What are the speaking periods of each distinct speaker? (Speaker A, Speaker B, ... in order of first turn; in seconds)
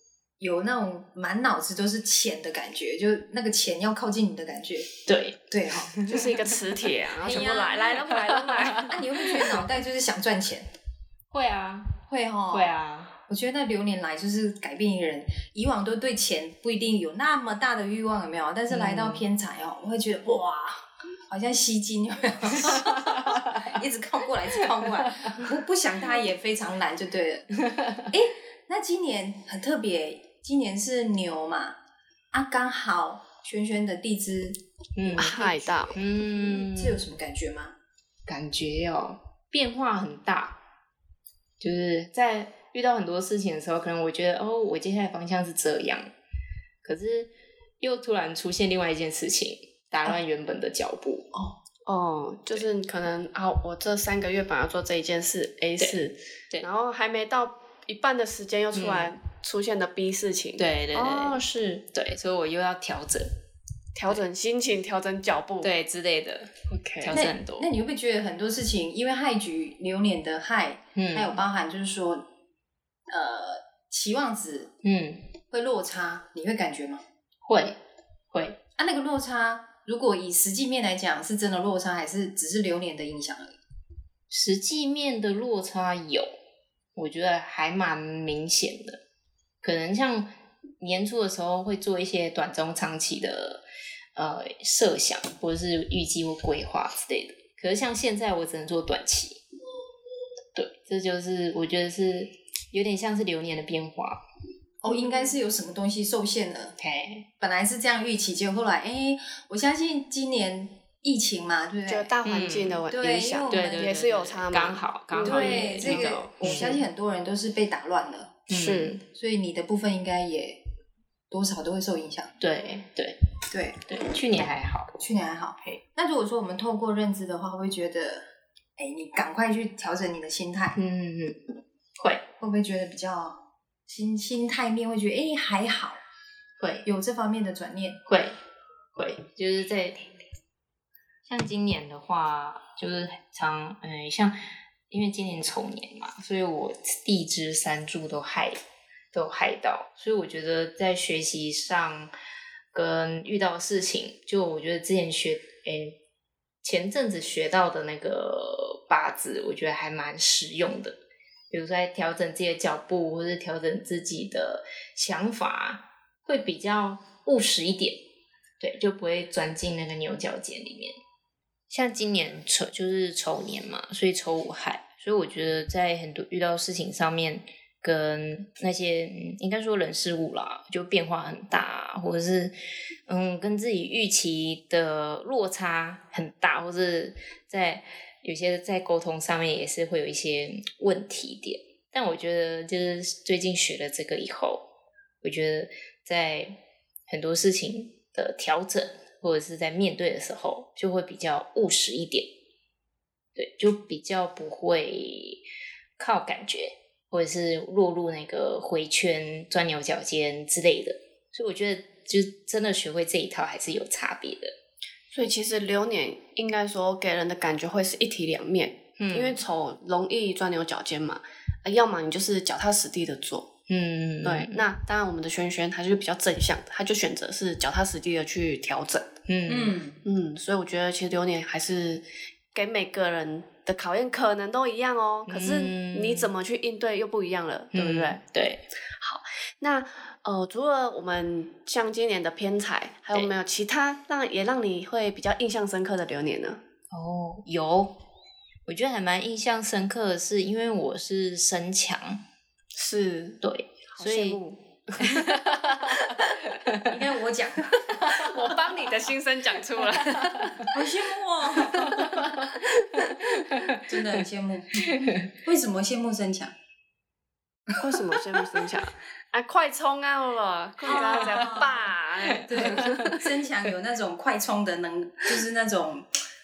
Speaker A: 0.4-6.0, 7.2-8.1, 8.7-10.7, 12.1-31.8, 32.3-37.8, 67.1-72.3, 73.1-74.7, 75.5-77.0, 78.8-83.6, 104.8-106.8, 107.4-112.1, 112.9-114.0, 115.2-118.5, 119.1-120.6, 121.3-122.3, 123.5-123.8, 125.0-128.3, 128.8-130.8, 132.4-136.0, 136.8-138.0, 229.5-230.0, 256.9-258.3, 260.6-262.3, 263.8-266.5, 267.7-268.5, 270.8-271.9, 272.5-276.1
Speaker B: 5.1-6.2, 8.3-8.9, 11.3-12.0, 12.5-13.1, 18.7-19.2, 22.6-23.7, 27.6-28.1, 35.0-37.0, 38.3-40.6, 41.6-46.1, 46.8-51.3, 58.7-59.1, 60.6-63.3, 65.6-67.7, 71.0-71.4, 74.8-75.2, 77.5-77.8, 78.3-78.6, 84.3-86.3, 87.0-89.0, 89.6-93.6, 94.2-99.4, 100.5-104.2, 106.8-107.3, 112.2-112.8, 113.5-116.8, 118.5-119.0, 122.4-123.2, 123.8-124.9, 130.8-131.4, 132.0-132.2, 136.6-136.9, 138.1-138.4, 139.0-140.1, 141.3-148.6, 149.1-152.1, 152.7-156.0, 156.6-161.0, 161.5-168.1, 168.6-171.0, 171.7-182.6, 183.1-194.7, 195.2-202.3, 203.4-205.4, 206.0-214.5, 219.0-219.4, 223.7-224.7, 229.3-229.8, 235.3-236.3, 237.7-238.7, 246.9-248.0, 248.7-252.2, 253.4-254.4, 255.0-256.9, 258.0-258.3, 259.9-260.7, 261.7-264.0, 264.8-265.3, 271.0-271.5, 272.2-273.2
Speaker C: 6.0-9.0, 35.2-36.0, 51.9-61.5, 64.0-65.7, 66.7-67.2, 111.9-116.8, 118.5-119.0, 215.1-223.5, 224.2-229.1, 230.0-238.2, 239.0-246.6, 252.7-253.4, 253.9-256.3, 258.0-260.7, 261.7-263.2, 267.8-273.2